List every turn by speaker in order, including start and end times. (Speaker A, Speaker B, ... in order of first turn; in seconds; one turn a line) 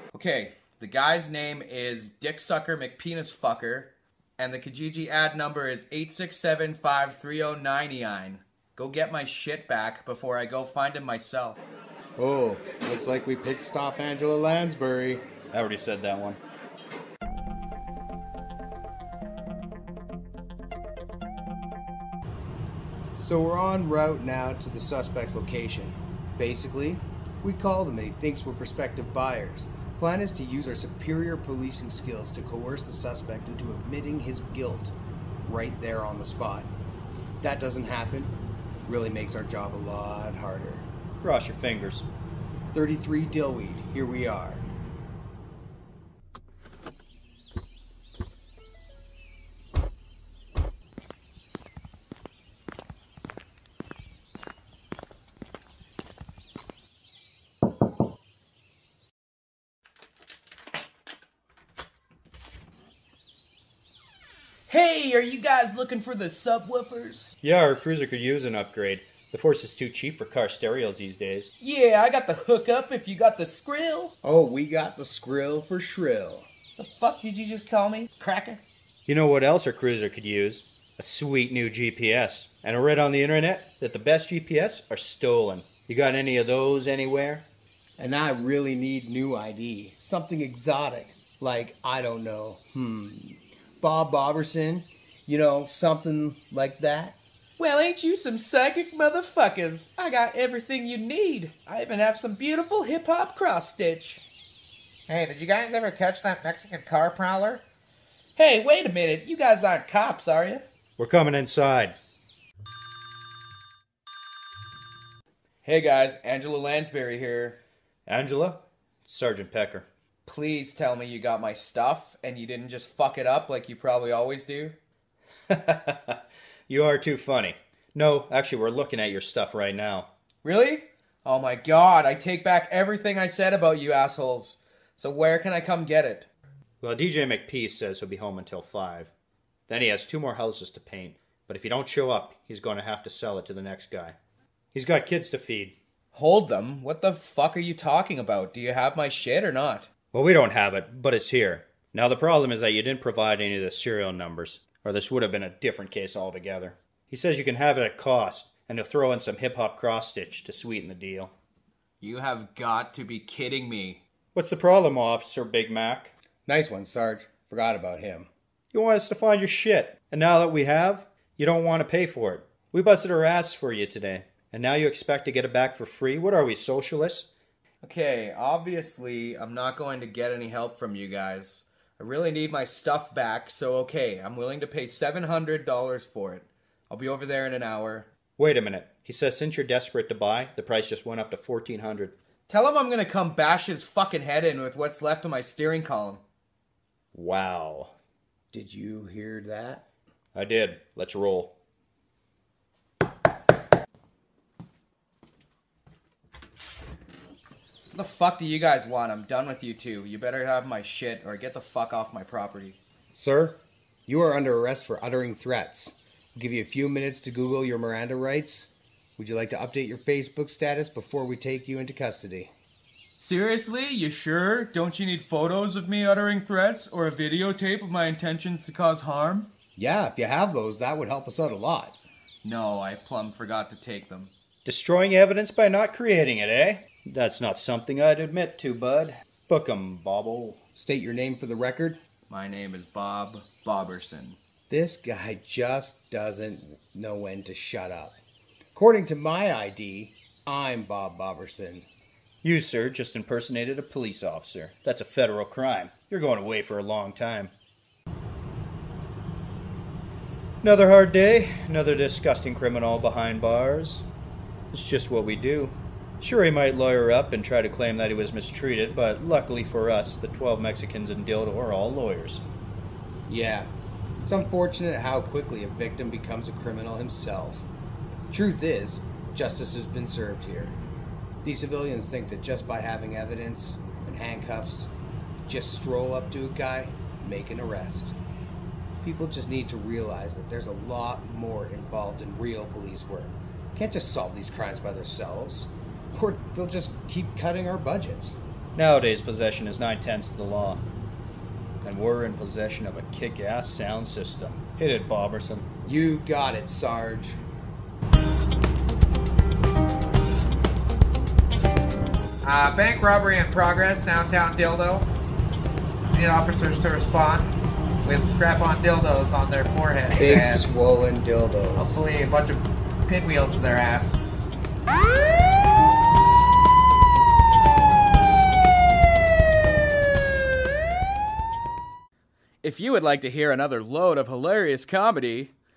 Speaker A: 0.1-11.6
Speaker B: 12.2-15.2
Speaker C: 15.5-16.4
Speaker B: 23.2-36.7
Speaker B: 37.4-38.3
Speaker B: 38.9-40.9
Speaker C: 41.2-42.1
Speaker B: 42.7-44.6
Speaker A: 64.7-67.3
Speaker C: 67.4-71.5
Speaker A: 71.6-74.1
Speaker B: 74.2-76.5
Speaker A: 76.8-78.6
Speaker C: 79.1-87.5
Speaker B: 88.0-97.2
Speaker A: 97.6-104.2
Speaker D: 105.1-107.6
Speaker A: 108.4-110.6
Speaker C: 111.0-112.0
Speaker A: 115.6-117.6
Speaker C: 118.1-119.9
Speaker A: 120.2-124.8
Speaker C: 125.5-130.1
Speaker A: 130.4-136.3
Speaker C: 136.8-139.1
Speaker C: 139.7-144.2
Speaker C: 144.7-145.8
Speaker A: 146.1-149.9
Speaker C: 150.1-161.3
Speaker A: 162.0-164.0
Speaker C: 164.3-166.1
Speaker B: 166.5-168.3
Speaker C: 168.7-177.3
Speaker A: 177.8-188.1
Speaker C: 188.4-192.2
Speaker A: 192.5-196.2
Speaker C: 197.1-197.9
Speaker B: 198.5-199.8
Speaker C: 200.3-201.5
Speaker A: 207.9-212.8
Speaker B: 213.1-222.5
Speaker A: 223.2-229.5
Speaker B: 229.8-232.0
Speaker A: 232.4-234.3
Speaker C: 234.7-240.6
Speaker B: 240.8-242.0
Speaker A: 242.3-244.4
Speaker B: 244.7-248.2
Speaker B: 248.7-251.9
Speaker C: 252.4-257.5
Speaker C: 260.6-264.1
Speaker C: 264.7-272.4
Speaker B: 273.3-273.7
Speaker B: 274.2-277.7
Speaker B: 278.2-280.8
Speaker B: 281.4-284.9
Speaker B: 285.4-288.2
Speaker B: 289.0-298.4
Speaker C: 298.8-300.8
Speaker C: 301.8-305.7
Speaker B: 305.8-307.4
Speaker D: 312.4-315.1
Speaker D: 316.1-317.5
Speaker D: 318.0-320.7
Speaker B: 320.1-322.0
Speaker A: 321.8-322.1
Speaker D: 322.1-322.6
Speaker A: 323.1-324.2
Speaker A: 332.6-335.5